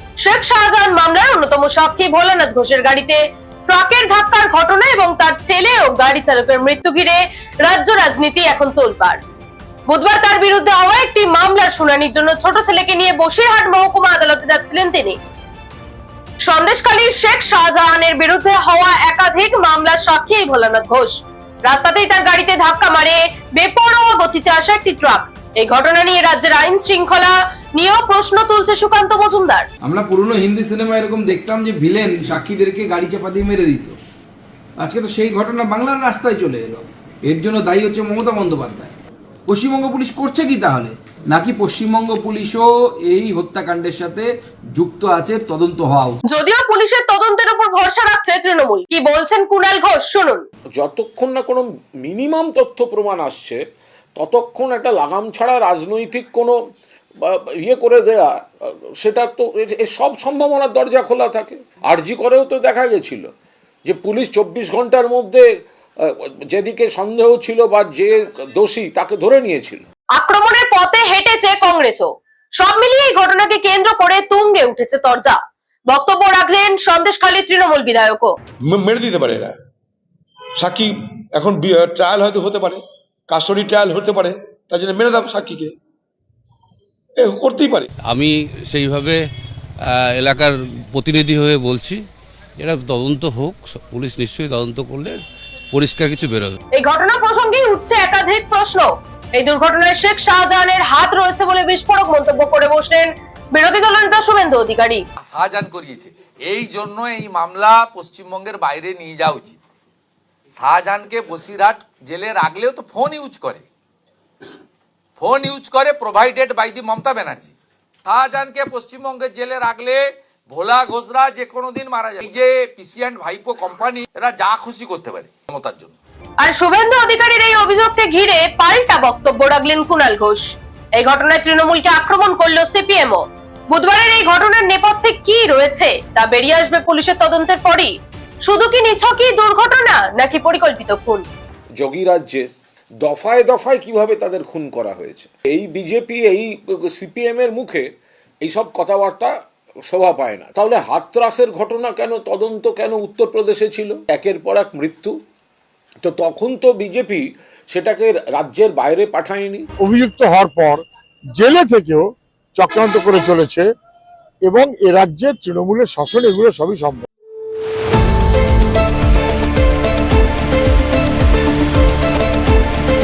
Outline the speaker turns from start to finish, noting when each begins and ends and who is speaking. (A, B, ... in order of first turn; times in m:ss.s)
0:00.2-0:09.2 A
0:09.9-0:15.2 A
0:16.4-0:29.7 A
0:29.8-0:34.0 B
0:34.8-0:38.9 B
0:39.5-0:46.2 B
0:46.3-0:50.4 A
0:50.8-0:53.6 C
0:54.2-0:56.6 C
0:57.2-1:03.3 C
1:03.8-1:05.5 C
1:06.0-1:09.8 C
1:10.2-1:18.4 A
1:18.6-1:19.6 D
1:20.6-1:25.7 D
1:27.2-1:27.9 D
1:28.1-1:29.2 E
1:29.9-1:32.0 E
1:32.6-1:35.2 E
1:35.7-1:36.6 E
1:36.8-1:45.0 A
1:45.2-1:49.6 F
1:50.6-1:53.7 F
1:55.2-1:57.5 F
1:58.1-2:06.0 F
2:06.4-2:21.2 A
2:21.8-2:22.5 C
2:23.0-2:27.9 C
2:28.4-2:29.3 C
2:29.9-2:35.2 C
2:36.0-2:39.7 C
2:39.8-2:40.8 G
2:41.4-2:43.7 G
2:44.4-2:47.0 G